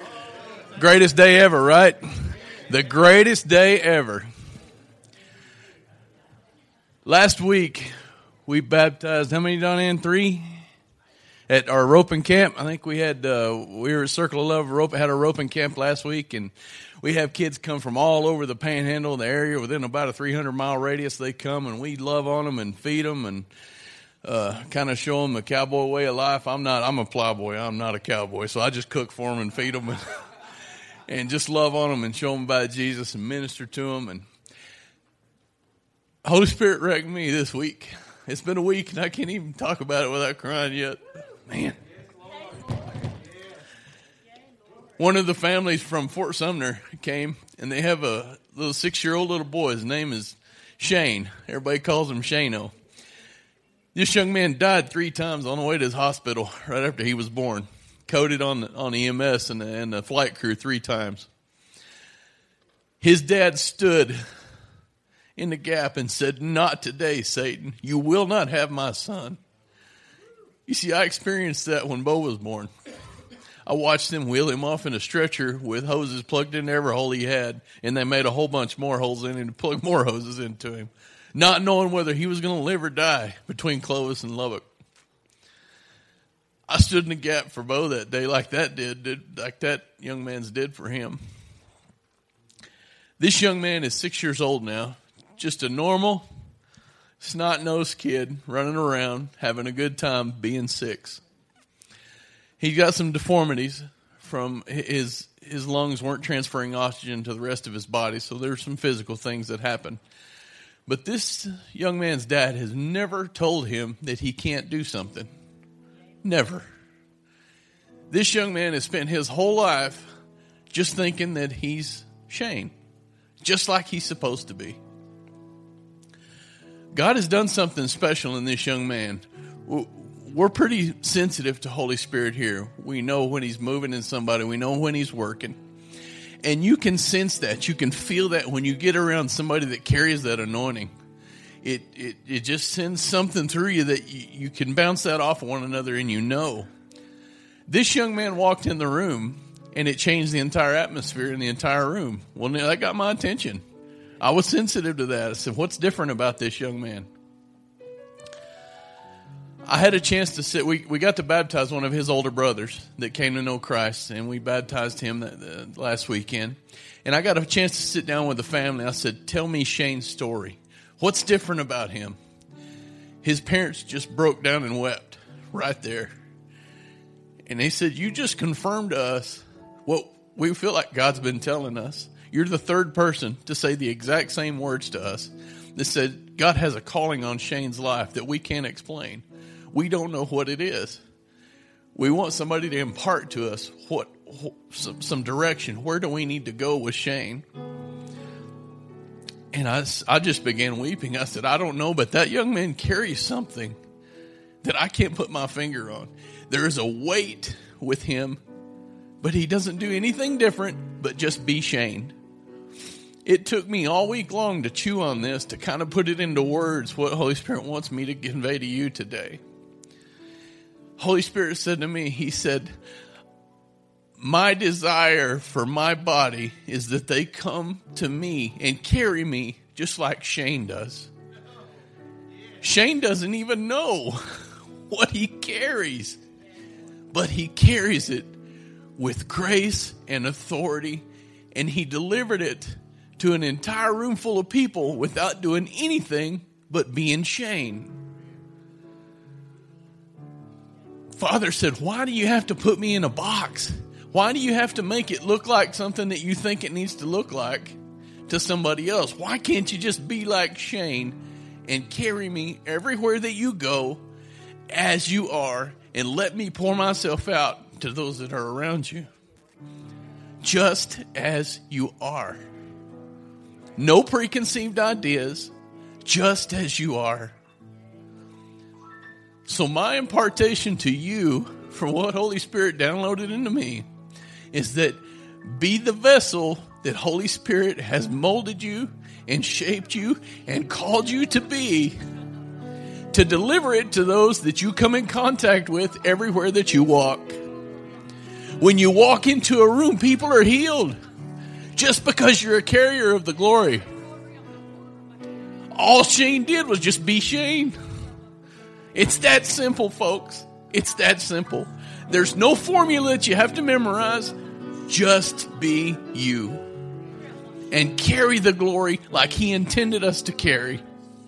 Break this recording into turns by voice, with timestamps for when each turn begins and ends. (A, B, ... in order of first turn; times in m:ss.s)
0:00.8-0:04.3 A
0:07.0-0:07.9 A
0:08.4-0:10.4 A
0:11.5-0:23.5 A
0:24.2-0:30.0 A
0:31.1-0:34.2 A
0:36.2-0:41.8 A
0:45.0-0:52.7 A
0:53.9-1:01.3 A
1:03.0-1:04.2 A
1:05.4-1:09.4 A
1:10.6-1:12.7 A
1:13.6-1:24.6 A
1:26.7-1:31.2 A
1:33.2-1:36.2 A
1:37.2-1:41.2 A
1:42.6-1:50.0 A
1:50.8-1:55.3 A
1:56.2-1:56.6 A
1:58.1-2:00.1 A
2:00.7-2:02.7 A
2:03.4-2:04.8 A
2:06.9-2:15.6 A
2:16.4-2:20.9 A
2:21.6-2:26.7 A
2:27.7-2:33.6 A
2:34.2-2:37.1 A
2:39.7-2:52.2 A
2:53.2-2:56.1 A
2:57.4-3:11.0 A
3:11.9-3:17.4 A
3:19.5-3:23.8 A
3:24.6-3:28.4 A
3:29.2-3:32.1 A
3:33.2-3:39.4 A
3:41.0-3:42.7 A
3:44.2-3:51.1 A
3:52.6-3:56.2 A
3:57.1-3:58.3 A
3:59.0-4:08.0 A
4:11.1-4:24.0 A
4:24.7-4:29.1 A
4:30.4-4:32.4 A
4:33.8-4:35.5 A
4:36.0-4:37.3 A
4:39.4-4:43.9 A
4:44.5-4:52.0 A
4:53.1-4:57.4 A
4:58.6-5:01.0 A
5:01.7-5:03.8 A
5:05.7-5:07.7 A
5:08.9-5:14.3 A
5:14.9-5:16.6 A
5:17.7-5:20.8 A